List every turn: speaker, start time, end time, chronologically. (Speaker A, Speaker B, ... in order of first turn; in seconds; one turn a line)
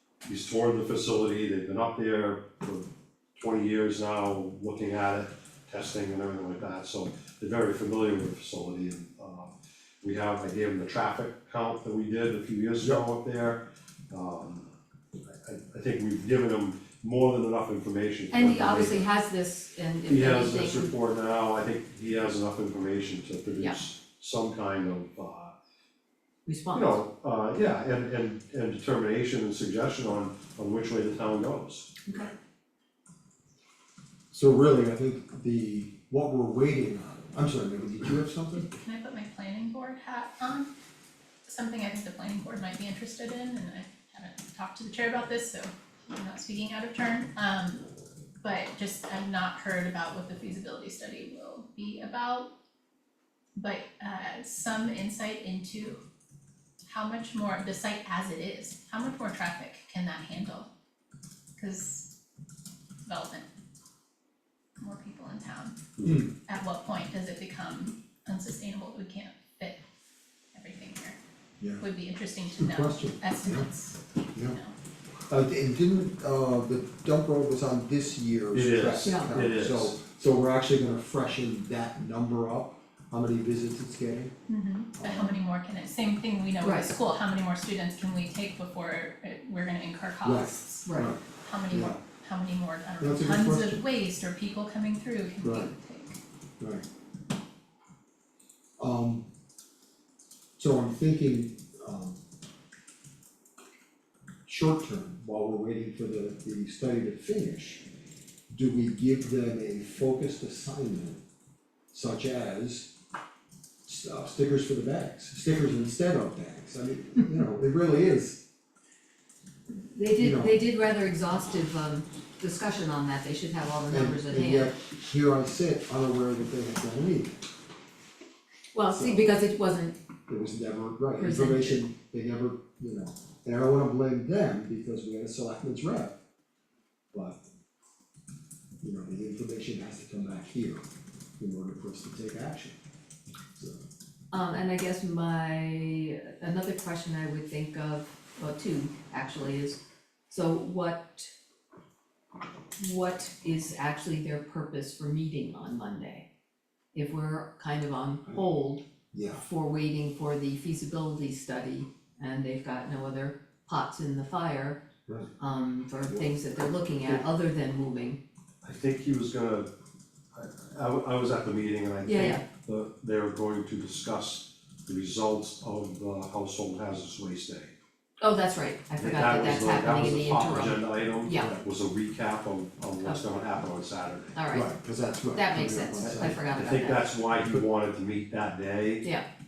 Speaker A: 0.2-14.7
Speaker A: 15.2-19.1
Speaker B: 18.3-20.9
Speaker A: 20.1-25.5
Speaker B: 26.4-27.0
Speaker A: 26.7-31.9
Speaker B: 32.1-32.3
Speaker C: 34.3-38.7
Speaker D: 38.5-40.7
Speaker D: 41.5-47.9
Speaker D: 48.4-52.5
Speaker D: 53.5-56.0
Speaker D: 56.9-60.7
Speaker D: 61.6-62.1
Speaker D: 63.0-63.5
Speaker D: 64.8-65.8
Speaker A: 66.0-66.2
Speaker C: 66.0-66.3
Speaker D: 66.5-69.8
Speaker D: 70.5-71.2
Speaker C: 71.6-71.8
Speaker D: 71.8-74.8
Speaker C: 72.5-73.7
Speaker C: 75.3-84.3
Speaker A: 78.5-80.0
Speaker B: 79.0-79.3
Speaker D: 84.5-96.2
Speaker C: 85.0-85.4
Speaker B: 86.6-86.9
Speaker C: 90.2-92.0
Speaker B: 90.8-91.1
Speaker C: 93.0-93.8
Speaker C: 95.4-95.7
Speaker C: 98.8-99.3
Speaker C: 100.6-102.2
Speaker C: 104.5-107.8
Speaker C: 108.5-111.2
Speaker C: 111.9-112.9
Speaker C: 113.8-118.4
Speaker B: 119.7-124.7
Speaker C: 120.2-120.5
Speaker C: 123.9-127.5
Speaker B: 128.7-130.0
Speaker C: 128.9-129.3
Speaker C: 130.3-136.1
Speaker B: 131.2-131.8
Speaker C: 137.1-137.4
Speaker C: 138.8-140.8
Speaker C: 141.4-142.8
Speaker C: 143.6-143.8
Speaker B: 144.3-149.8
Speaker B: 150.3-151.3
Speaker B: 152.8-156.2
Speaker B: 156.9-164.8
Speaker C: 159.1-159.4
Speaker C: 165.1-165.3
Speaker B: 165.4-168.2
Speaker C: 166.1-167.2
Speaker A: 168.6-169.7
Speaker A: 170.3-177.7
Speaker B: 172.0-172.4
Speaker B: 178.2-181.5
Speaker A: 179.0-184.4
Speaker C: 181.3-181.7
Speaker B: 184.3-184.7
Speaker C: 184.5-186.4
Speaker B: 185.3-187.1
Speaker A: 186.0-189.1